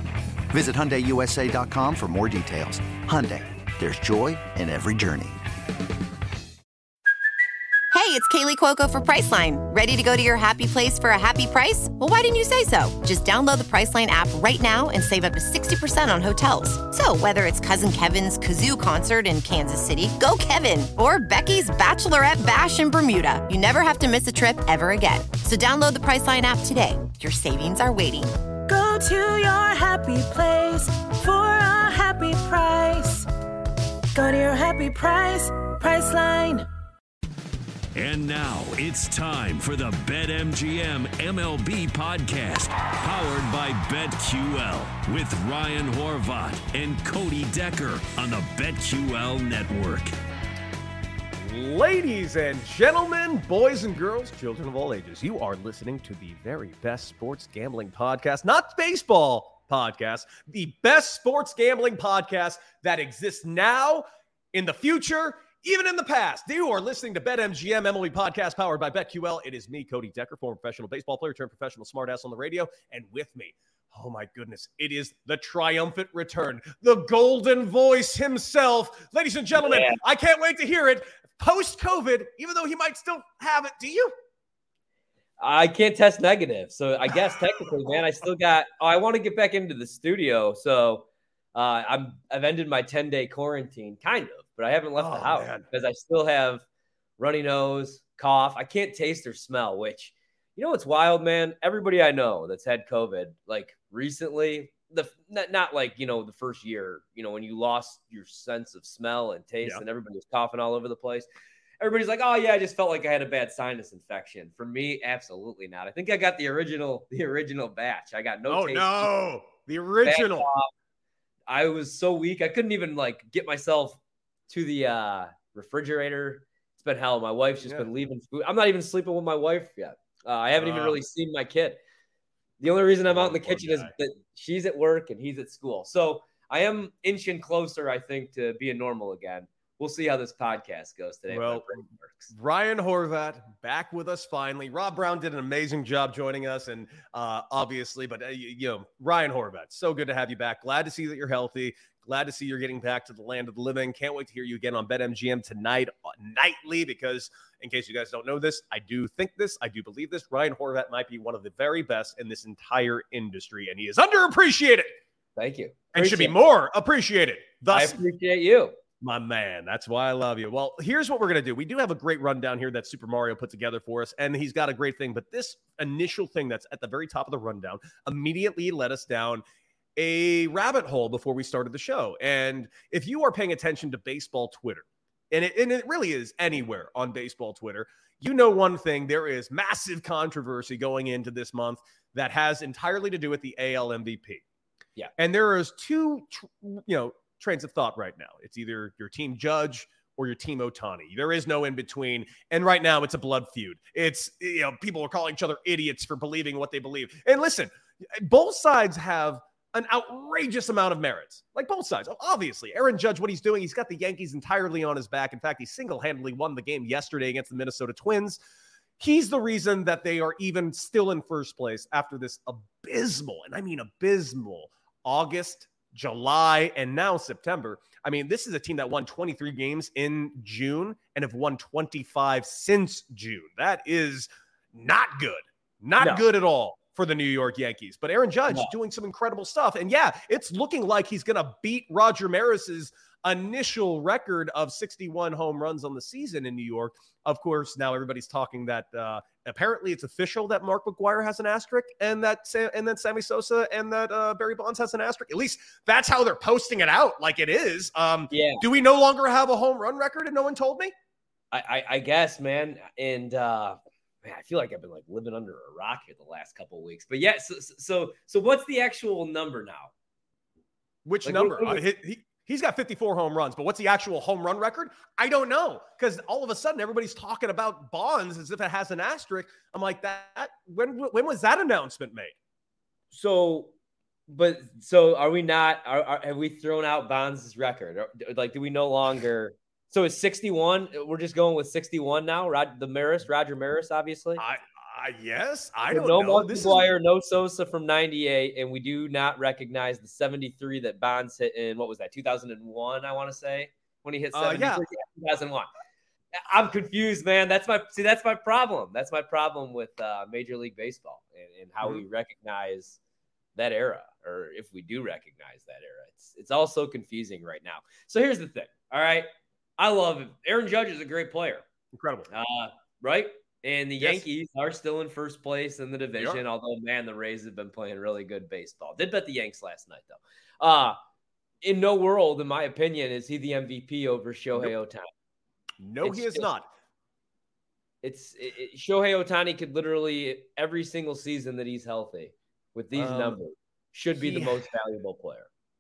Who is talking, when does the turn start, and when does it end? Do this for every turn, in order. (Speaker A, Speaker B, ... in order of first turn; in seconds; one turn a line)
Speaker A: 0.5-5.4
Speaker B: 7.9-28.4
Speaker C: 28.7-33.3
Speaker C: 34.1-36.7
Speaker D: 38.0-50.1
Speaker E: 51.4-84.1
Speaker F: 79.5-80.0
Speaker F: 85.4-96.6
Speaker E: 95.0-95.7
Speaker F: 97.2-111.3
Speaker F: 111.8-119.1
Speaker E: 118.5-120.5
Speaker F: 120.0-120.7
Speaker F: 121.5-131.8
Speaker E: 130.6-131.0
Speaker F: 132.6-142.3
Speaker E: 133.1-133.9
Speaker E: 141.3-164.9
Speaker F: 165.4-166.4
Speaker E: 165.9-168.0
Speaker F: 167.7-168.8
Speaker E: 169.0-179.4
Speaker E: 180.0-194.4
Speaker E: 195.2-218.4
Speaker E: 219.0-260.9
Speaker F: 236.0-236.2
Speaker F: 258.3-258.6
Speaker F: 261.5-269.9
Speaker E: 271.1-282.3
Speaker F: 271.2-271.8
Speaker F: 283.1-283.7
Speaker F: 284.3-294.4
Speaker E: 294.4-296.9
Speaker F: 295.9-305.7
Speaker E: 304.3-304.8
Speaker F: 306.4-313.0
Speaker F: 313.6-321.6
Speaker E: 321.9-322.3
Speaker F: 322.3-331.0
Speaker E: 324.0-324.2
Speaker F: 331.6-335.1
Speaker E: 335.8-336.7
Speaker F: 336.0-336.5
Speaker F: 338.0-345.5
Speaker E: 342.9-343.4
Speaker E: 344.2-344.6